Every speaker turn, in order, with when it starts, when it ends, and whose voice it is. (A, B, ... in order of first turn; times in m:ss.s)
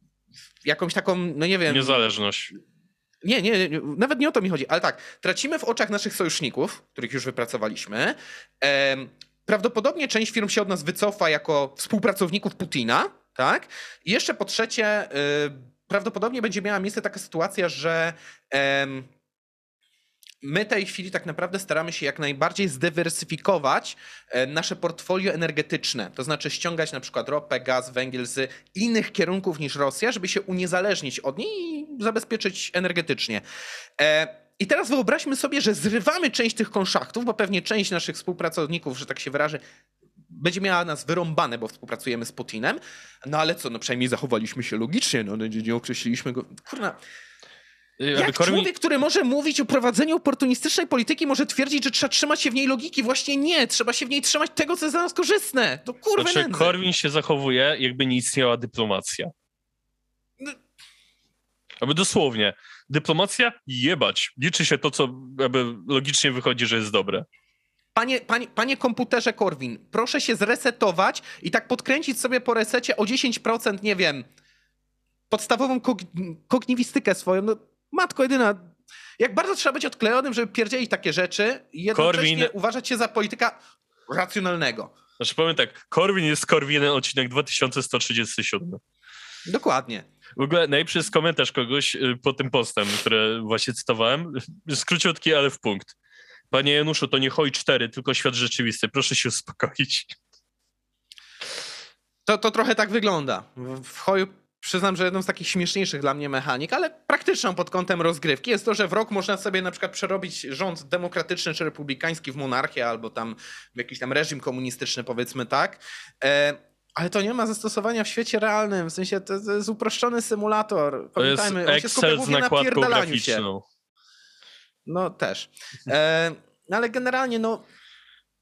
0:00.6-0:02.1 A
0:01.7-0:02.5 B
0:03.2-0:19.1 A
0:20.4-0:33.4 A
0:34.0-0:39.6 A
0:40.3-0:47.0 A
0:48.0-0:48.7 B
0:48.1-0:56.8 A
0:56.2-0:59.3 B
1:01.8-1:07.2 B
1:07.9-1:14.2 A
1:15.3-1:24.9 A
1:21.9-1:22.5 B
1:25.2-1:28.8 B
1:29.5-1:30.0 A
1:30.4-1:35.9 B
1:36.5-1:40.2 B
1:42.2-2:03.4 A
2:01.2-2:03.6 B
2:04.8-2:07.6 A